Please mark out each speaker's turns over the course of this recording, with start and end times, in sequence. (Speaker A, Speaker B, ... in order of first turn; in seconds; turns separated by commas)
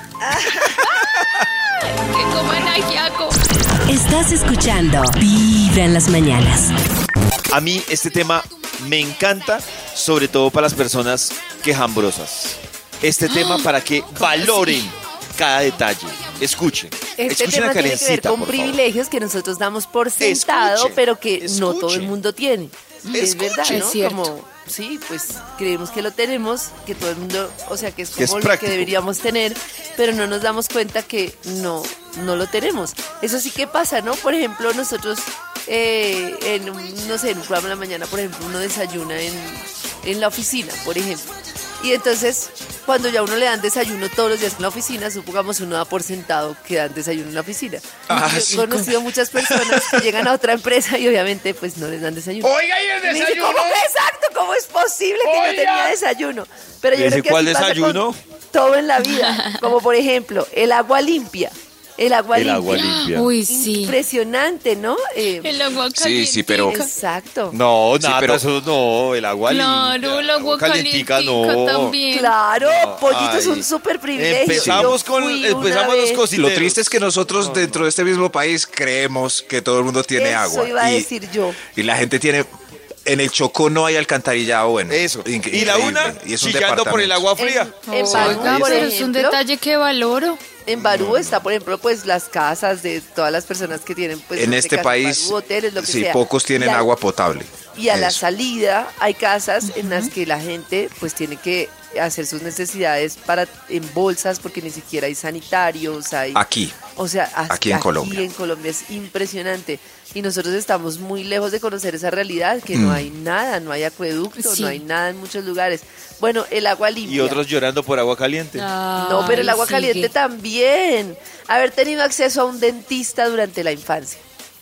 Speaker A: 0.2-1.3, Speaker B: 1.8-3.4, Speaker C: 3.9-6.7, Speaker D: 7.5-18.8, Speaker B: 13.3-13.7, Speaker A: 14.2-14.9, Speaker A: 17.2-62.9, Speaker D: 20.2-22.1, Speaker B: 23.1-24.3, Speaker D: 23.1-23.9, Speaker D: 28.2-28.9, Speaker E: 48.1-50.2, Speaker E: 52.4-53.5, Speaker D: 56.9-58.2, Speaker D: 62.3-63.3, Speaker B: 62.7-64.0, Speaker A: 63.5-65.5, Speaker B: 65.4-66.9, Speaker E: 65.9-66.8, Speaker A: 66.7-67.6, Speaker D: 67.5-72.0, Speaker E: 68.0-68.4, Speaker B: 69.5-72.3, Speaker A: 72.1-76.2, Speaker D: 72.6-77.8, Speaker E: 74.5-75.0, Speaker E: 76.3-81.1, Speaker A: 80.1-81.6, Speaker E: 81.7-82.5, Speaker E: 83.0-87.3, Speaker D: 84.9-88.9, Speaker A: 87.4-89.4, Speaker B: 87.9-90.4, Speaker A: 90.7-96.9, Speaker E: 90.9-91.3, Speaker E: 94.4-98.2, Speaker A: 97.7-106.4, Speaker B: 99.7-100.1, Speaker E: 106.3-106.8, Speaker A: 106.9-117.4, Speaker E: 107.5-108.2, Speaker E: 112.7-113.1, Speaker B: 114.4-114.8, Speaker D: 117.0-118.7, Speaker B: 118.5-120.1, Speaker A: 119.0-124.2